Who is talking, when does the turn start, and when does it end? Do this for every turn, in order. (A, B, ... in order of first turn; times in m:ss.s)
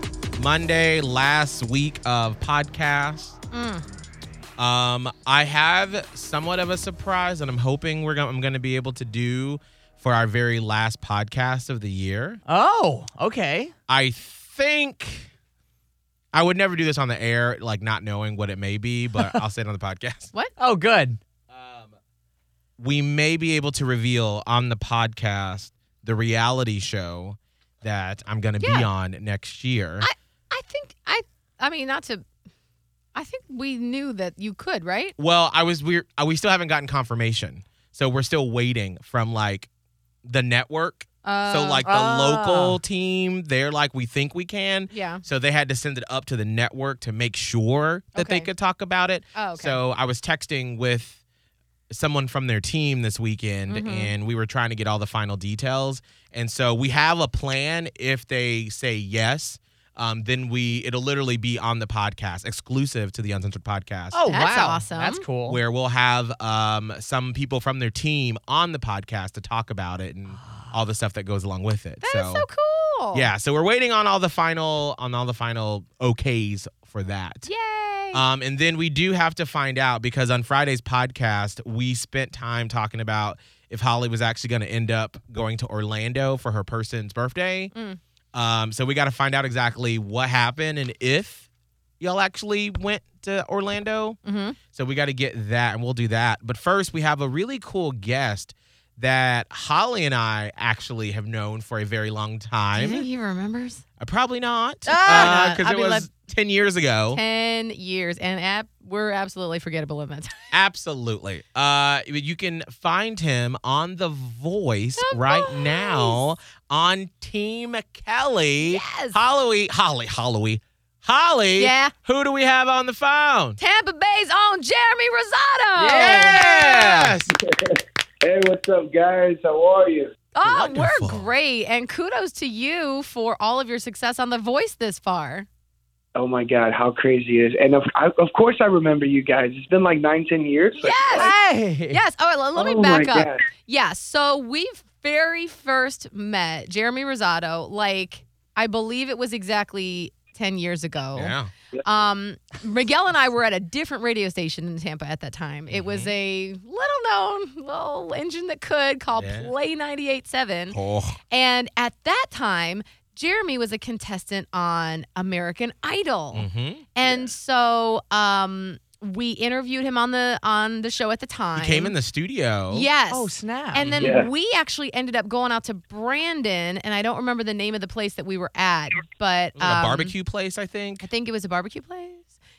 0:00.4-0:03.4 A
0:03.5-0:03.8 B
0:04.6-0:12.4 A
0:12.4-0:13.7 C
0:13.9-0:15.3 A
0:16.3-0:20.3 A
0:20.6-0:21.2 C
0:21.5-0:22.0 A
0:22.8-0:30.1 A
0:28.6-0:28.9 B
0:30.0-0:32.2 B
0:33.1-0:35.1 B
0:35.2-0:39.7 A
0:40.2-0:51.2 A
0:41.2-0:41.8 B
0:41.8-0:42.8 C
0:44.9-0:45.2 B
0:48.1-0:48.5 B
0:49.3-0:49.8 B
0:51.9-1:04.2 A
0:53.7-0:54.1 B
1:04.1-1:05.6 C
1:04.3-1:05.2 B
1:05.5-1:12.4 A
1:10.4-1:10.7 C
1:12.0-1:13.3 B
1:13.1-1:17.5 A
1:17.4-1:18.2 B
1:18.1-1:27.7 A
1:27.7-1:28.0 B
1:28.3-1:31.4 A
1:32.0-1:34.2 A
1:34.2-1:34.6 B
1:34.7-1:43.0 A
1:42.7-1:43.8 B
1:44.0-1:47.2 A
1:44.9-1:46.1 B
1:47.1-1:50.3 B
1:50.5-2:03.6 A
1:55.0-1:56.2 B
1:58.6-1:59.2 B
2:01.6-2:01.9 B
2:03.6-2:06.4 B
2:05.8-2:07.2 C
2:06.0-2:07.4 A
2:07.5-2:10.1 D
2:10.3-2:15.5 B
2:10.4-2:11.3 A
2:16.1-2:21.3 D
2:20.8-2:21.3 B
2:21.1-2:22.0 C
2:21.9-2:40.8 B
2:22.6-2:23.4 D
2:31.1-2:31.5 A
2:35.7-2:36.1 A
2:39.2-2:39.5 A
2:40.7-2:41.2 A
2:41.3-2:51.9 B
2:46.3-2:46.9 A
2:47.0-2:47.3 D
2:51.6-2:52.9 A
2:52.7-3:00.1 B
2:53.1-2:53.9 C
2:53.8-2:54.2 A
2:54.0-2:54.3 D
2:59.6-3:01.1 A
3:01.0-3:02.3 B